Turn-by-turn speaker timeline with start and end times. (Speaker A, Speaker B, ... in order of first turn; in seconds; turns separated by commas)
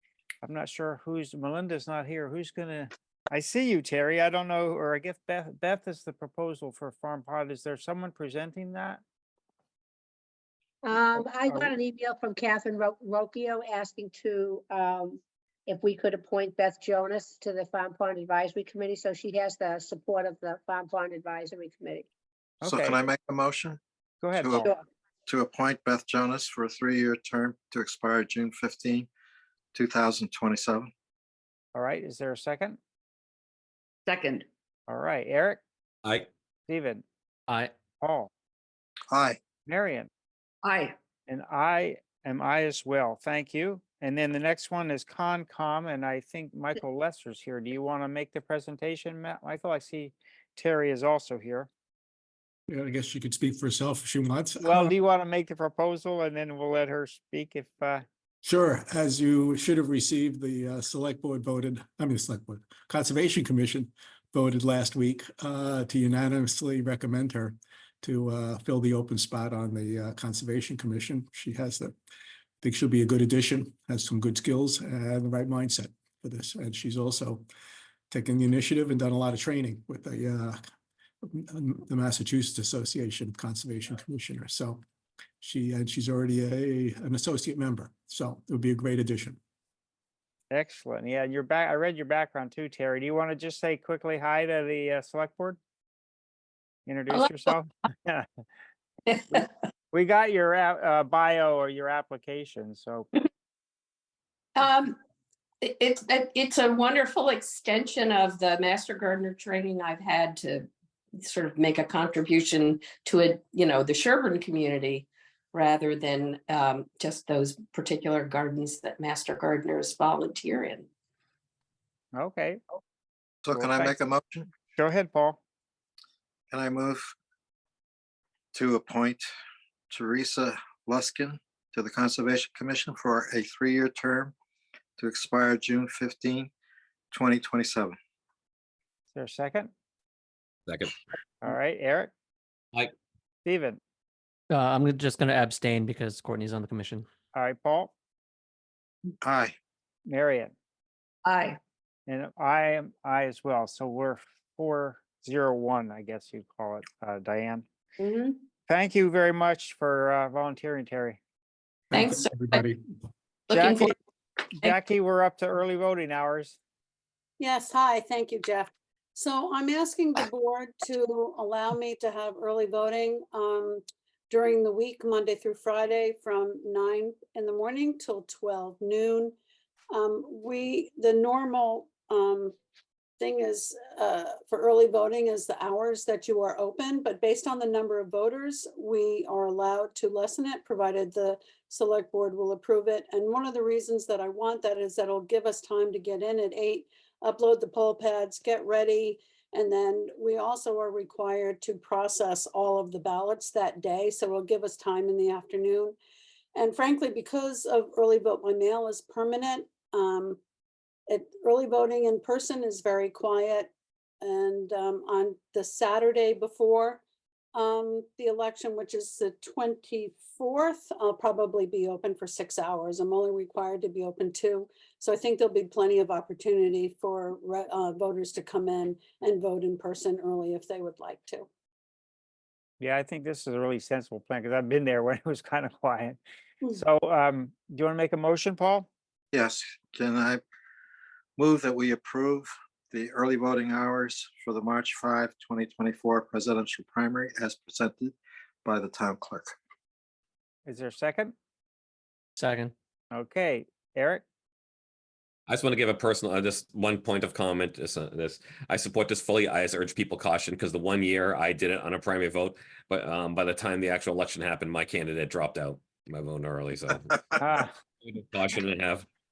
Speaker A: 0.4-9.0, Speaker B: 10.8-22.1, Speaker A: 22.6-23.0, Speaker C: 22.6-23.8, Speaker A: 24.2-24.7, Speaker C: 24.4-24.7, Speaker C: 25.3-29.1, Speaker C: 29.7-30.9, Speaker A: 31.7-32.8, Speaker D: 34.1-34.4, Speaker A: 34.9-35.6, Speaker A: 36.7-37.0, Speaker E: 37.5-37.7, Speaker A: 38.0-38.3, Speaker C: 39.1-39.4, Speaker A: 39.7-40.1, Speaker D: 40.6-40.9, Speaker A: 41.3-51.7, Speaker F: 52.7-54.9, Speaker A: 54.6-58.0, Speaker F: 58.4-71.9, Speaker F: 72.6-77.5, Speaker F: 78.1-80.6, Speaker F: 81.2-84.8, Speaker F: 85.4-89.4, Speaker A: 90.5-95.6, Speaker A: 96.8-98.2, Speaker D: 97.1-97.5, Speaker D: 99.1-99.5, Speaker A: 99.9-103.1, Speaker D: 104.5-105.0, Speaker D: 105.6-120.9, Speaker A: 122.1-122.6, Speaker C: 123.4-124.5, Speaker A: 123.5-124.0, Speaker A: 124.6-125.4, Speaker C: 126.5-127.1, Speaker C: 128.5-129.2, Speaker C: 129.9-134.3, Speaker C: 135.0-136.5, Speaker C: 137.1-137.9, Speaker A: 139.1-139.7, Speaker G: 140.7-140.9, Speaker A: 141.4-142.1, Speaker A: 143.4-143.8, Speaker E: 144.5-147.1, Speaker A: 147.3-147.9, Speaker C: 149.2-149.5, Speaker A: 150.1-150.5, Speaker D: 151.2-151.6, Speaker A: 152.1-157.6, Speaker D: 158.0-158.4, Speaker A: 158.7-161.2, Speaker F: 161.9-162.8, Speaker D: 161.9-162.6, Speaker D: 163.5-163.9, Speaker A: 163.5-163.9, Speaker A: 164.6-166.6, Speaker H: 167.4-179.3, Speaker H: 179.9-182.6, Speaker H: 183.2-206.0, Speaker H: 206.5-210.4, Speaker H: 211.1-217.0, Speaker H: 217.5-231.5, Speaker A: 232.8-236.2, Speaker A: 236.7-238.9, Speaker C: 239.3-240.4, Speaker C: 241.4-249.5, Speaker A: 250.7-251.3, Speaker E: 252.4-252.7, Speaker A: 253.1-254.2, Speaker G: 255.5-267.3, Speaker A: 267.4-267.7, Speaker G: 268.0-269.1